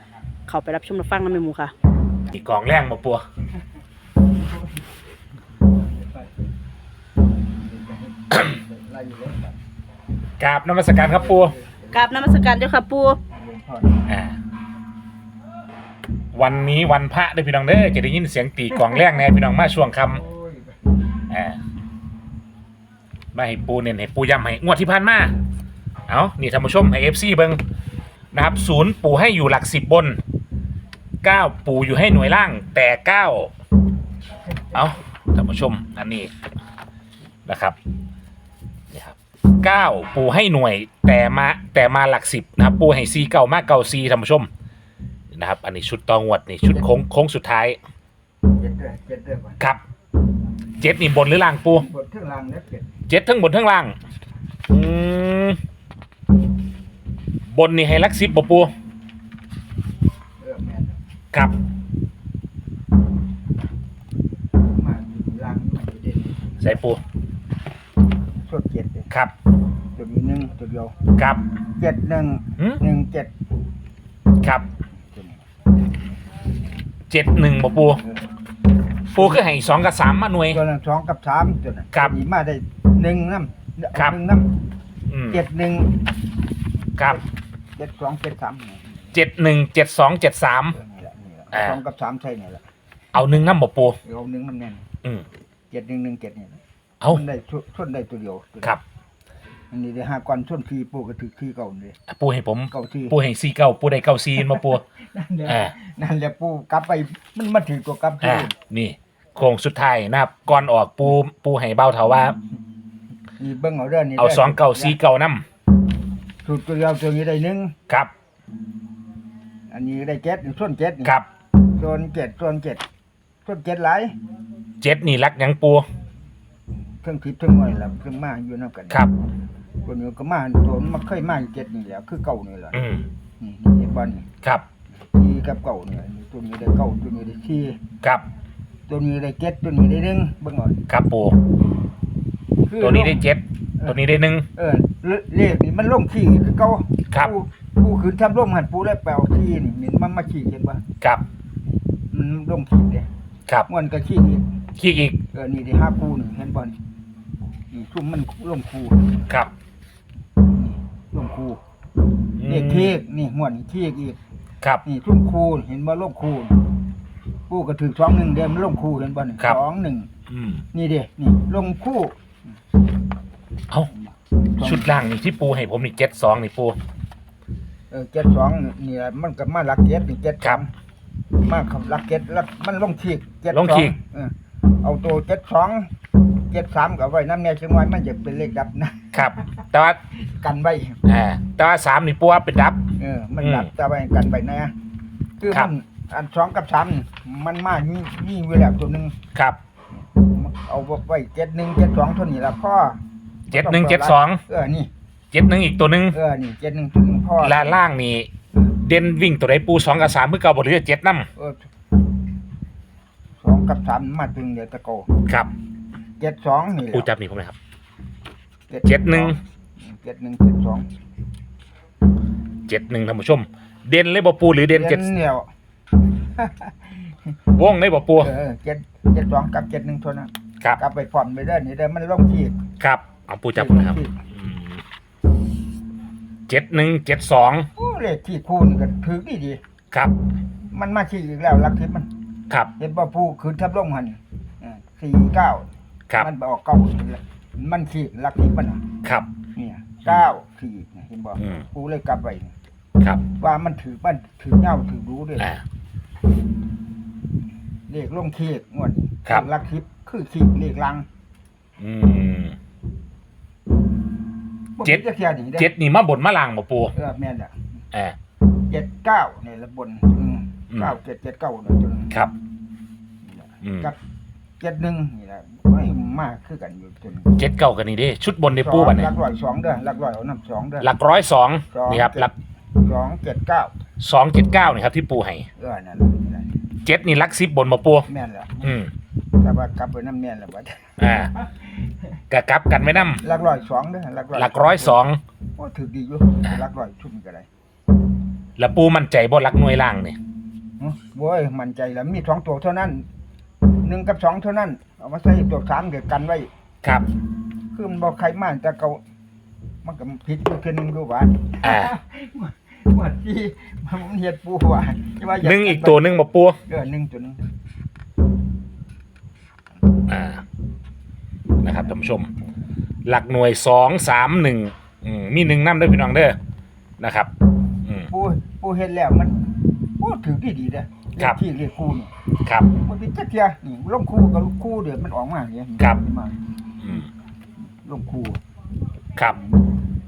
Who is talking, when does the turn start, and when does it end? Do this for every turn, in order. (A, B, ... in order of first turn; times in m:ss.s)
0:00.5-0:01.7 A
0:02.3-0:03.2 B
0:05.9-0:06.3 C
0:07.6-0:09.6 C
0:10.4-0:11.5 B
0:11.0-0:12.3 C
0:11.9-0:13.2 A
0:13.3-0:14.0 C
0:14.0-0:14.4 B
0:16.3-0:20.2 B
0:20.1-0:20.8 C
0:21.3-0:21.6 B
0:23.3-0:25.3 B
0:26.1-0:27.6 B
0:28.3-0:30.2 B
0:31.2-0:33.5 B
0:34.7-0:36.3 B
0:37.4-0:37.8 B
0:38.9-0:44.5 B
0:45.3-0:47.8 B
0:48.6-0:49.6 C
0:50.8-0:51.8 B
0:51.7-0:52.9 C
0:53.1-0:54.0 B
0:54.7-0:55.6 B
0:57.5-0:58.7 B
1:00.4-1:01.0 C
1:04.7-1:06.8 C
1:06.6-1:07.0 B
1:08.4-1:09.1 C
1:09.9-1:11.0 C
1:11.2-1:11.4 B
1:11.7-1:13.3 C
1:14.4-1:14.6 B
1:15.1-1:15.4 C
1:17.1-1:18.0 B
1:18.0-1:18.2 C
1:19.1-1:20.6 B
1:19.1-1:19.4 C
1:20.5-1:24.5 C
1:25.1-1:25.5 B
1:25.3-1:25.9 C
1:27.7-1:29.1 C
1:29.1-1:30.8 B
1:30.7-1:32.6 C
1:31.5-1:31.8 B
1:33.1-1:34.0 B
1:34.0-1:34.8 C
1:35.7-1:36.6 C
1:37.1-1:38.8 C
1:39.7-1:42.0 C
1:42.1-1:44.8 B
1:42.7-1:43.2 C
1:44.4-1:48.5 C
1:45.4-1:45.7 B
1:48.2-1:52.4 B
1:53.4-1:55.0 C
1:54.2-1:55.4 B
1:56.4-1:57.7 C
1:59.7-2:01.1 C
2:01.8-2:02.8 C
2:03.4-2:04.1 C
2:04.8-2:05.8 B
2:07.0-2:09.1 C
2:09.8-2:12.8 C
2:12.7-2:13.0 B
2:13.4-2:14.3 C
2:15.1-2:17.8 C
2:18.9-2:20.9 C
2:20.9-2:21.4 B
2:22.6-2:23.3 C
2:22.8-2:24.4 B
2:24.5-2:30.8 C
2:32.1-2:33.1 C
2:33.7-2:34.4 C
2:34.8-2:35.2 B
2:35.3-2:36.8 C
2:37.7-2:39.2 C
2:40.4-2:41.6 C
2:42.4-2:43.0 B
2:42.5-2:44.2 C
2:44.8-2:46.6 C
2:47.5-2:50.1 C
2:50.3-2:50.6 B
2:50.7-2:52.1 C
2:54.0-2:55.0 C
2:54.6-2:56.8 B
2:57.9-3:00.7 C
3:01.4-3:05.9 C
3:03.5-3:03.9 B
3:06.5-3:09.3 C
3:09.1-3:10.0 B
3:10.3-3:11.0 C
3:11.0-3:12.8 B
3:13.0-3:14.7 C
3:13.4-3:13.7 B
3:15.4-3:19.1 C
3:19.3-3:19.6 B
3:20.0-3:24.9 C
3:23.5-3:24.4 B
3:25.3-3:26.2 B
3:26.1-3:27.8 C
3:27.4-3:31.3 B
3:31.4-3:31.6 C
3:33.4-3:35.1 C
3:36.2-3:37.1 C
3:36.8-3:37.6 B
3:38.7-3:40.9 C
3:38.8-3:39.4 B
3:42.7-3:45.1 B
3:44.7-3:45.5 C
3:46.4-3:46.9 C
3:47.5-3:48.3 B
3:48.2-3:52.6 C
3:52.8-3:54.8 B
3:53.5-3:54.2 C
3:56.5-3:57.7 B
3:57.7-3:59.6 C
4:00.7-4:02.1 C
4:02.8-4:08.8 C
4:09.0-4:09.3 B
4:09.5-4:12.5 C
4:11.4-4:11.6 B
4:13.4-4:15.5 C
4:15.4-4:15.6 B
4:17.9-4:21.0 C
4:21.8-4:22.6 B
4:24.8-4:25.7 C
4:25.6-4:26.9 B
4:26.9-4:27.7 C
4:28.7-4:32.1 C
4:33.2-4:34.0 C
4:33.6-4:33.9 B
4:34.6-4:37.4 C
4:37.4-4:39.1 B
4:38.5-4:40.9 C
4:40.8-4:42.3 B
4:41.7-4:43.7 C
4:44.0-4:45.5 B
4:45.6-4:46.6 C
4:46.8-4:48.1 B
4:48.1-4:48.8 C
4:48.6-4:48.9 B
4:49.4-4:50.9 C
4:51.0-4:51.3 B
4:52.3-4:53.2 B
4:53.0-4:55.0 C
4:54.3-4:55.2 B
4:55.6-4:57.5 C
4:58.6-5:00.2 B
5:00.8-5:03.0 C
5:03.8-5:06.5 C
5:07.7-5:09.0 C
5:09.8-5:16.1 C
5:11.6-5:11.9 B
5:15.4-5:16.6 B
5:16.6-5:17.5 C
5:20.1-5:20.4 B
5:21.6-5:22.3 B
5:23.0-5:26.4 B
5:27.0-5:27.3 B
5:28.1-5:32.1 C
5:32.4-5:32.7 B
5:32.7-5:36.4 C
5:36.8-5:37.1 B
5:37.8-5:38.4 C
5:39.3-5:39.7 C